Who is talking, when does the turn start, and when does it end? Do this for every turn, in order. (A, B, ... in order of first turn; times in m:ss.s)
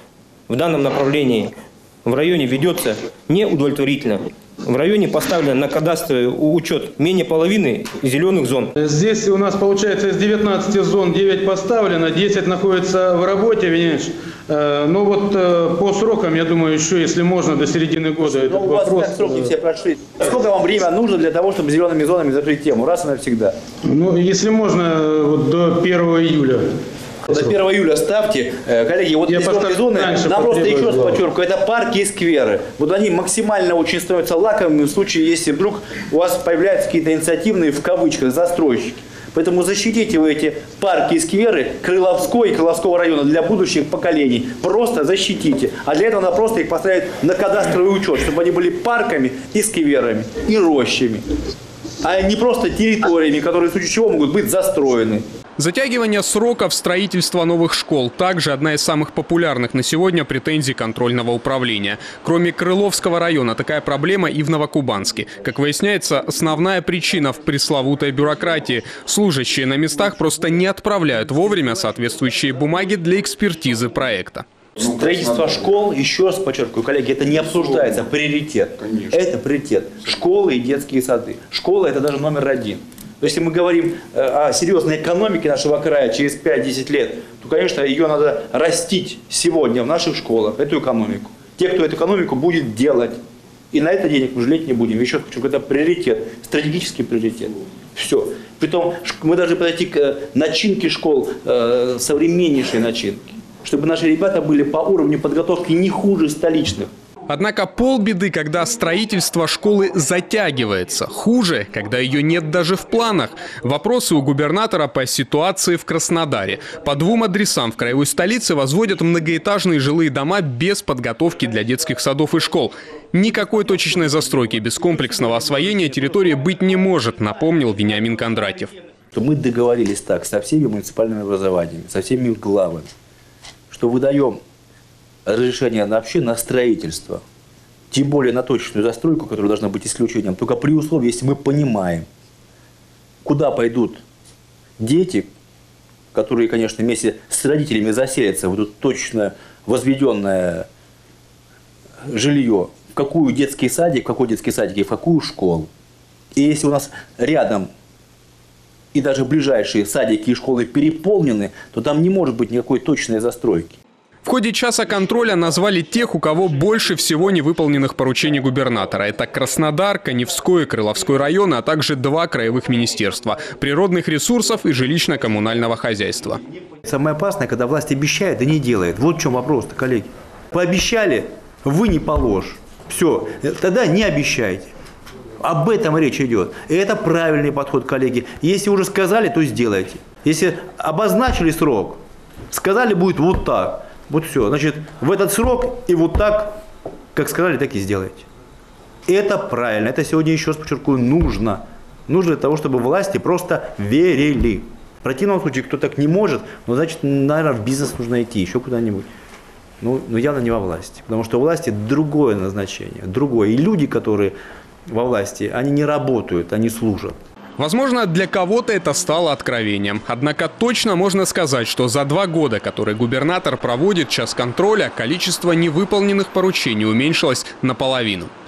0:00.5-0:01.5 A
0:02.0-0:08.7 A
0:08.8-0:19.5 B
0:18.2-0:23.5 C
0:23.8-0:26.6 B
0:27.3-0:51.2 C
0:29.3-0:31.2 B
0:52.0-0:55.2 C
0:55.6-1:14.4 D
1:14.8-1:33.2 C
1:33.7-1:46.9 C
1:47.3-2:08.7 D
2:09.1-2:12.9 C
2:13.7-2:14.4 C
2:15.2-2:17.2 C
2:17.9-2:22.0 C
2:23.2-2:24.0 C
2:24.8-2:25.3 C
2:26.1-2:30.7 C
2:32.0-2:35.7 C
2:36.3-2:37.7 C
2:38.9-2:43.8 C
2:44.2-2:56.4 D
2:56.8-3:04.7 C
3:05.4-3:12.0 C
3:12.5-3:16.6 C
3:17.1-3:18.2 C
3:19.0-3:29.1 C
3:29.8-3:34.3 C
3:34.9-3:37.2 C
3:37.6-3:48.3 D